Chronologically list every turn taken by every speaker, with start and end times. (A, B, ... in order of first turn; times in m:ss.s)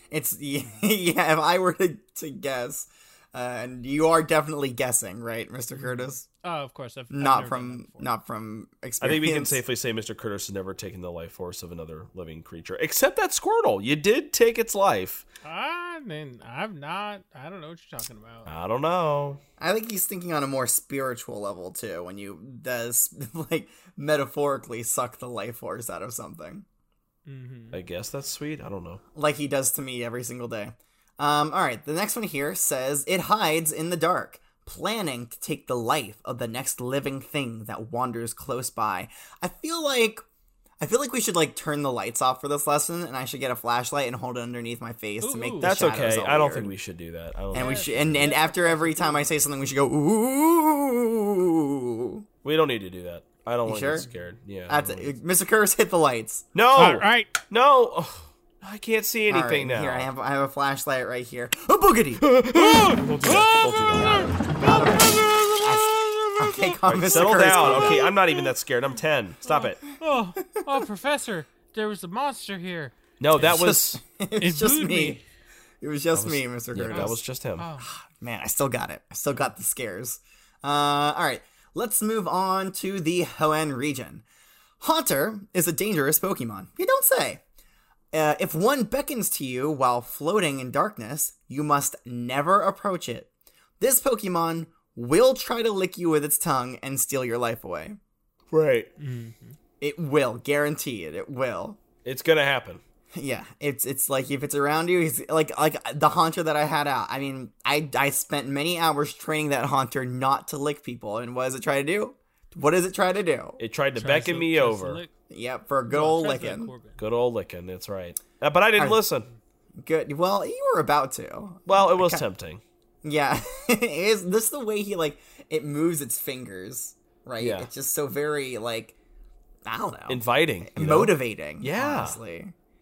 0:00.1-0:06.2 A
0:05.8-0:08.1 B
0:07.1-0:09.6 A
0:09.0-0:15.2 C
0:15.4-0:18.5 B
0:18.4-0:19.4 C
0:19.6-0:26.6 A
0:27.3-0:27.8 B
0:27.7-0:29.0 C
0:29.1-0:40.2 A
0:40.8-0:46.7 A
0:45.2-0:45.8 B
0:45.6-0:48.3 C
0:47.5-0:52.2 A
0:47.5-0:49.2 B
0:52.4-0:55.1 C
0:53.6-0:54.0 A
0:54.7-0:56.4 A
0:56.5-1:00.1 C
0:56.8-0:57.4 B
0:59.3-1:02.3 A
1:02.2-1:04.4 C
1:02.5-1:04.2 B
1:03.9-1:08.1 A
1:06.8-1:09.8 C
1:09.4-1:12.9 B
1:10.5-1:10.8 A
1:13.2-1:14.0 C
1:13.4-1:15.2 A
1:14.4-1:15.2 B
1:15.8-1:17.2 A
1:16.1-1:17.6 C
1:16.9-1:17.9 B
1:17.8-1:24.2 A
1:24.8-1:27.4 A
1:28.1-1:38.0 A
1:38.5-1:38.9 C
1:39.0-1:39.6 B
1:39.8-1:41.8 A
1:42.0-1:42.8 C
1:43.1-1:53.6 A
1:53.6-1:55.0 C
1:53.9-1:55.1 B
1:55.3-1:56.7 A
1:55.9-1:57.0 B
1:57.0-1:59.3 C
1:59.8-2:02.2 A
2:01.7-2:02.6 C
2:03.0-2:08.9 A
2:07.4-2:07.7 C
2:09.6-2:12.5 A
2:10.1-2:12.2 C